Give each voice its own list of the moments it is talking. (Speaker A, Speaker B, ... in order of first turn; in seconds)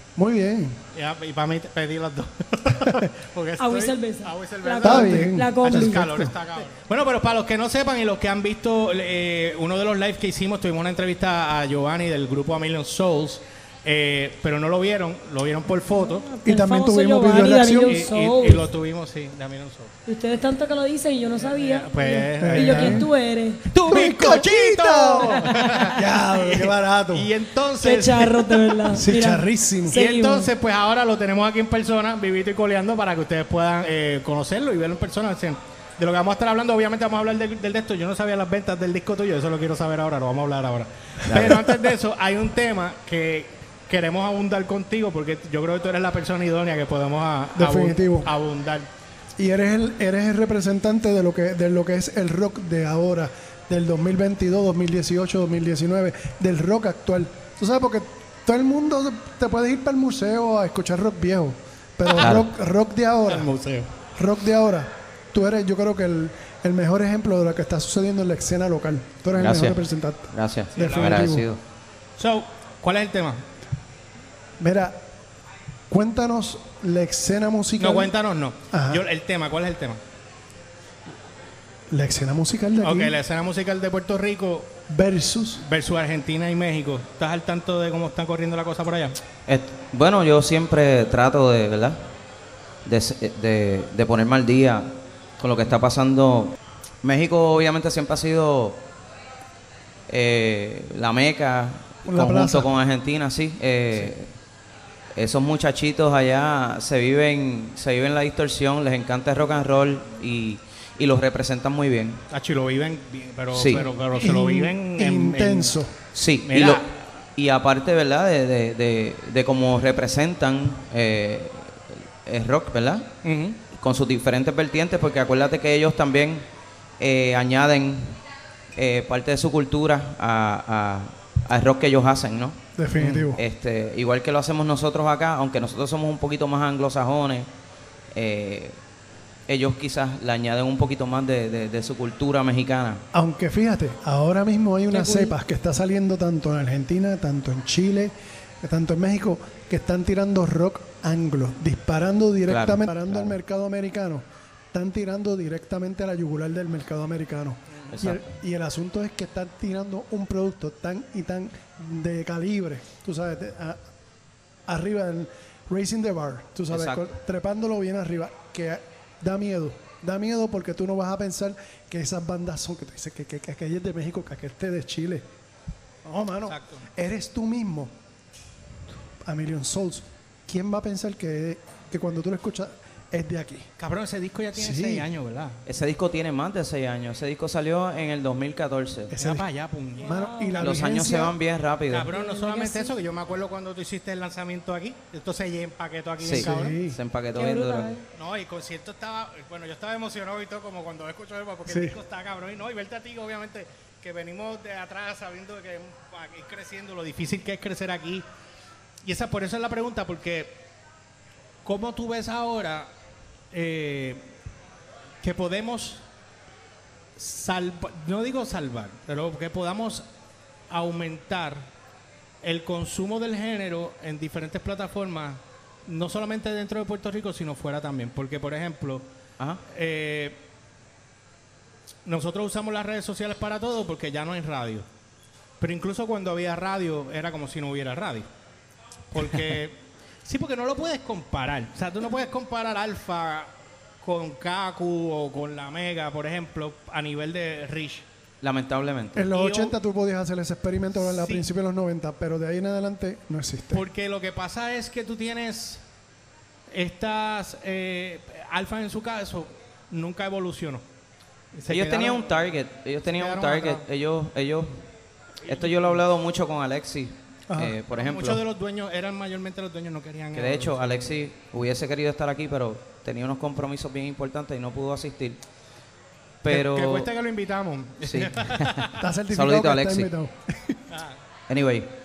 Speaker A: 0.1-0.8, 4.8-6.3, 16.4-18.1, 22.4-23.1, 23.9-27.3, 28.9-30.0, 47.5-48.3, 49.4-63.5, 64.2-71.5, 74.6-75.0, 75.9-78.1, 78.7-79.0, 81.9-83.2, 84.9-85.6, 102.1-102.7, 114.1-115.9, 132.8-133.4, 143.1-163.8, 164.7-175.2, 176.0-177.9, 179.2-183.7, 184.5-185.1, 189.1-189.4, 190.0-191.3, 196.4-197.0, 201.7-201.9, 249.1-253.8, 267.5-267.8, 279.0-280.8
Speaker B: 0.9-16.2, 17.9-19.9, 21.4-23.0, 23.7-28.9, 29.9-48.9, 62.1-62.4, 63.3-63.9, 70.7-71.3, 72.2-73.4, 77.8-80.0, 82.8-84.7, 85.6-89.2, 112.3-115.8, 116.5-116.8, 123.2-123.6, 132.9-133.2, 176.5-176.8, 183.8-185.6, 189.2-190.1, 191.9-196.7, 198.1-208.2, 209.0-210.6, 211.6-212.9, 213.5-214.3, 215.2-216.0, 217.2-220.1, 220.7-221.7, 222.4-229.1, 229.7-230.4, 232.0-234.9, 235.6-238.3, 239.1-248.1, 249.3-249.7, 251.0-251.4, 253.7-255.8, 256.7-260.8, 261.5-262.4, 263.1-263.8, 265.4-266.0, 267.9-271.1, 276.5-278.9, 280.9-281.2
Speaker C: 3.6-6.1, 15.9-18.6, 20.1-24.0, 27.8-30.5, 144.9-145.3, 190.0-190.8, 192.1-192.9, 197.3-198.0
Speaker D: 41.3-41.5, 62.2-62.5, 69.3-69.8, 70.3-71.6, 89.5-92.0, 92.8-98.8, 100.1-104.3, 105.2-112.2, 113.5-113.8, 116.1-123.1, 123.7-126.4, 127.0-128.2, 128.8-132.6, 133.3-137.5, 138.1-138.8, 139.5-143.0, 152.5-153.3, 157.9-158.2, 166.7-167.1, 185.7-189.1, 190.6-192.1, 196.2-197.9, 248.4-249.3, 261.7-264.8, 265.5-268.4, 270.3-275.4, 276.4-277.1, 278.0-280.1, 281.5-281.9